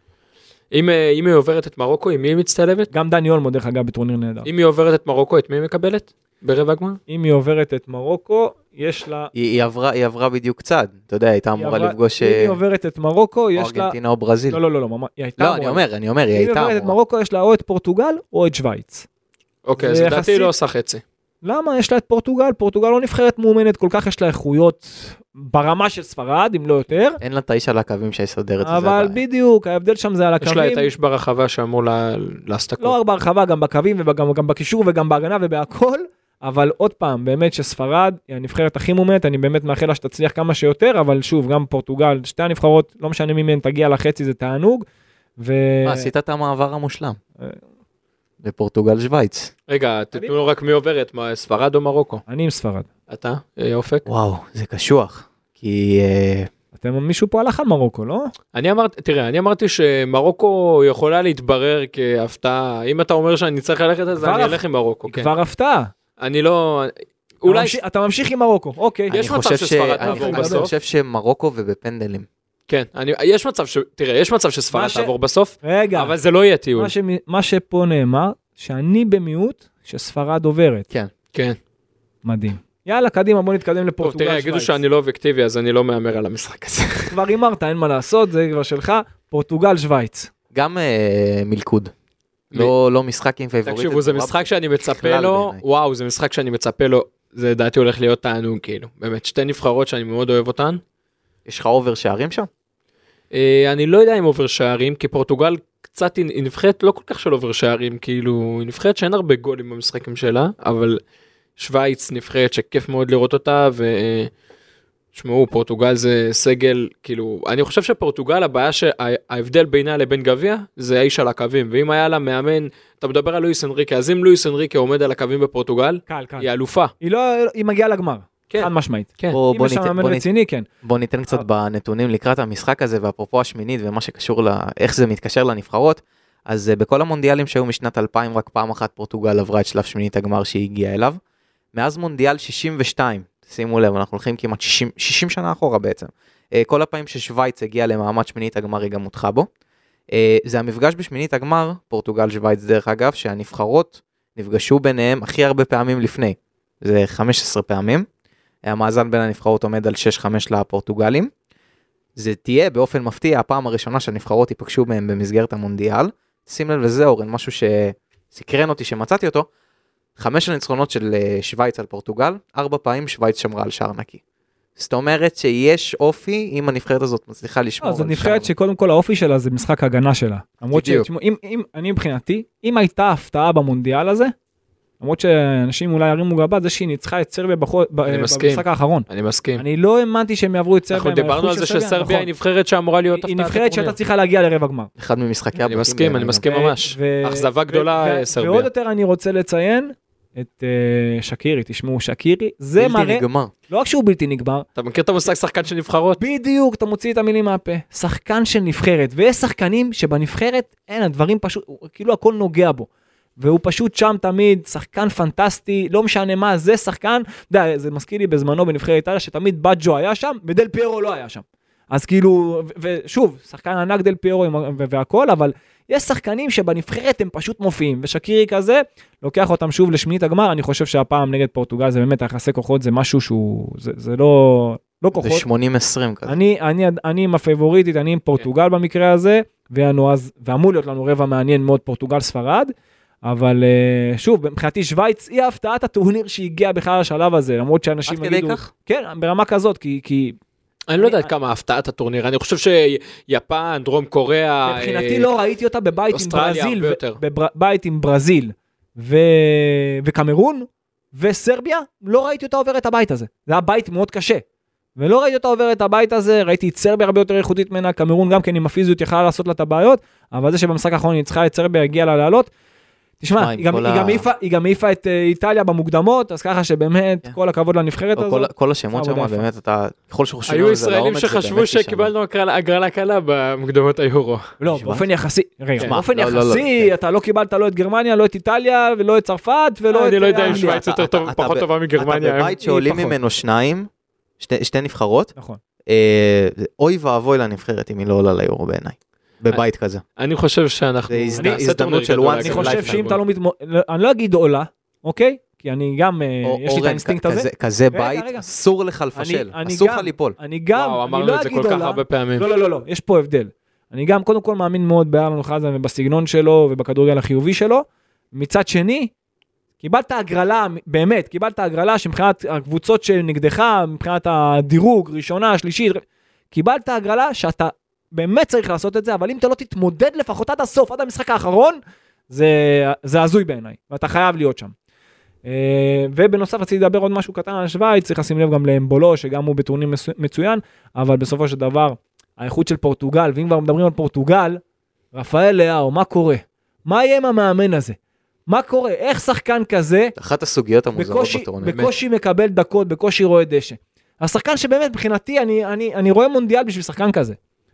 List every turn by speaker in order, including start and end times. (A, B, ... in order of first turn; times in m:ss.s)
0:00.7-0:02.9 A
0:02.9-0:04.5 B
0:04.4-0:07.0 A
0:07.1-0:09.3 B
0:09.3-0:12.6 C
0:11.6-0:13.9 B
0:13.5-0:14.6 C
0:14.5-0:19.1 B
0:15.4-0:17.0 C
0:19.6-0:21.0 A
0:19.8-0:20.5 B
0:21.4-0:27.2 B
0:27.2-0:29.2 C
0:28.6-0:30.8 B
0:30.4-0:33.0 A
0:32.8-0:44.8 B
0:45.4-0:46.1 B
0:45.8-0:47.2 C
0:48.4-0:49.5 C
0:49.7-0:52.2 A
0:52.3-0:52.9 B
0:53.1-0:54.0 A
0:54.0-0:56.5 C
0:56.7-0:58.3 B
0:58.5-1:05.3 A
1:04.2-1:05.9 B
1:06.2-1:07.8 A
1:07.4-1:09.2 B
1:09.1-1:12.3 C
1:09.1-1:10.7 A
1:10.0-1:10.7 B
1:12.7-1:16.9 A
1:14.7-1:15.1 B
1:15.6-1:16.1 B
1:16.7-1:20.9 B
1:22.2-1:24.8 B
1:24.0-1:27.1 A
1:27.1-1:30.3 B
1:30.5-1:31.9 C
1:32.5-1:35.6 C
1:33.6-1:40.8 A
1:41.4-1:42.5 C
1:43.3-1:51.0 A
1:51.6-1:54.3 A
1:55.1-2:06.9 A
2:06.1-2:06.5 B
2:07.0-2:10.6 B
2:08.5-2:09.4 A
2:09.3-2:10.2 C
2:10.8-2:21.2 C
2:21.7-2:29.5 C
2:30.1-2:38.0 C
2:38.6-2:41.3 C
2:42.2-2:49.5 C
2:50.2-2:54.2 C
2:54.8-2:58.5 C
2:57.8-3:04.3 B
3:00.7-3:01.1 C
3:05.0-3:12.3 B
3:08.0-3:09.6 A
3:10.9-3:14.0 A
3:13.1-3:14.9 B
3:15.0-3:16.4 C
3:15.6-3:18.7 A
3:16.4-3:24.7 B
3:22.8-3:23.5 C
3:24.8-3:26.2 A
3:26.2-3:55.4 B
3:55.2-3:56.4 C
3:56.2-4:02.7 B
4:03.2-4:10.4 B
4:08.0-4:08.7 C
4:10.9-4:15.3 A
4:11.0-4:11.3 B
4:14.6-4:24.4 B
4:16.1-4:17.2 A
4:25.0-4:32.5 B
4:33.2-4:39.5 B
4:33.4-4:34.3 C
4:38.2-4:42.1 C
4:40.5-4:44.5 A
4:44.6-4:50.8 B
4:44.7-4:45.0 C
4:45.8-4:46.9 C
4:49.9-4:52.6 A
4:50.4-4:55.3 C
4:52.6-4:53.1 B
4:55.4-4:55.6 B
4:55.9-5:00.0 C
5:00.2-5:03.2 A
5:01.1-5:03.2 C
5:01.4-5:01.6 B
5:02.3-5:08.5 B
5:06.4-5:10.4 C
5:09.1-5:19.1 B
5:10.7-5:12.5 A
5:19.8-5:34.7 B
5:35.4-5:44.6 B
5:45.1-5:48.0 B
5:48.5-5:50.1 B
5:50.2-5:51.9 C
5:50.9-5:57.4 B